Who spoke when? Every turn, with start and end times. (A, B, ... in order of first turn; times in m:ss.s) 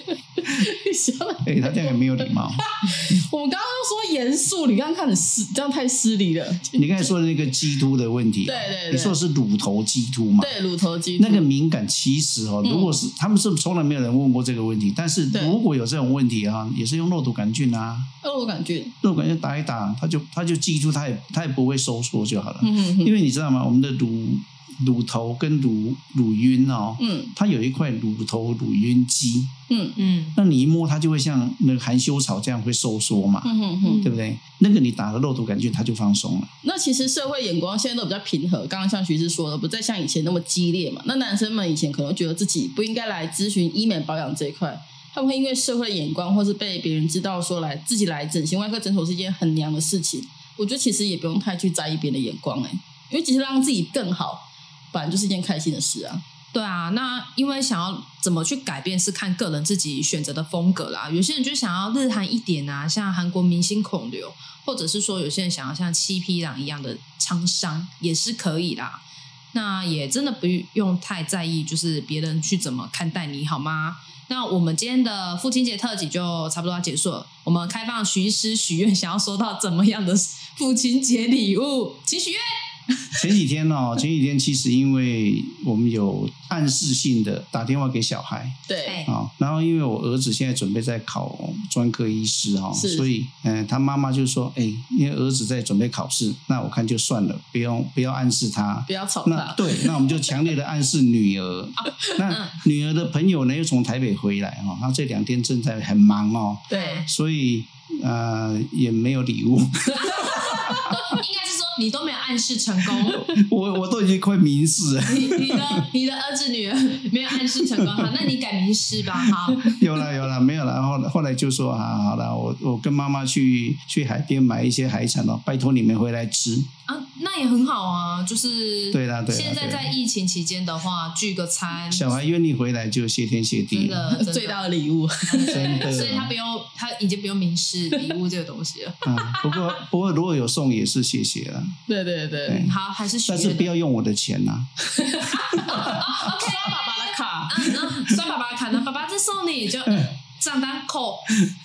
0:00.4-0:07.1 A
0:01.4-0:02.7 B
0:06.8-0:10.5 B
0:08.4-0:09.2 A
0:10.4-0:11.4 A
0:11.2-0:18.1 B
0:12.6-0:13.0 A
0:18.2-0:18.9 A
0:19.0-0:29.5 B
0:22.6-0:23.1 A
0:27.0-0:27.3 A
0:29.7-0:30.0 A
0:30.0-0:30.4 C
0:30.3-0:36.5 B
0:33.4-0:34.0 A
0:33.8-0:34.1 C
0:36.6-0:56.2 A
0:56.5-1:09.0 C
1:09.5-1:23.2 C
1:23.1-1:51.2 B
1:28.7-1:29.0 A
1:28.8-1:29.1 C
1:32.7-1:33.1 A
1:38.9-1:40.2 A
1:41.8-1:42.6 C
1:46.7-1:47.0 A
1:46.7-1:47.1 C
1:49.9-1:53.3 C
1:53.0-1:55.8 B
1:55.0-1:59.7 C
1:57.5-1:58.3 B
1:59.2-2:06.7 B
2:06.9-2:12.1 C
2:08.9-2:09.9 B
2:11.9-2:14.0 B
2:13.7-2:14.7 C
2:14.1-2:15.9 A
2:15.2-2:19.0 C
2:15.5-2:16.3 B
2:19.0-2:21.8 B
2:21.9-2:22.6 A
2:22.4-2:26.3 B
2:22.5-2:23.7 C
2:25.0-2:27.8 A
2:25.3-2:31.4 C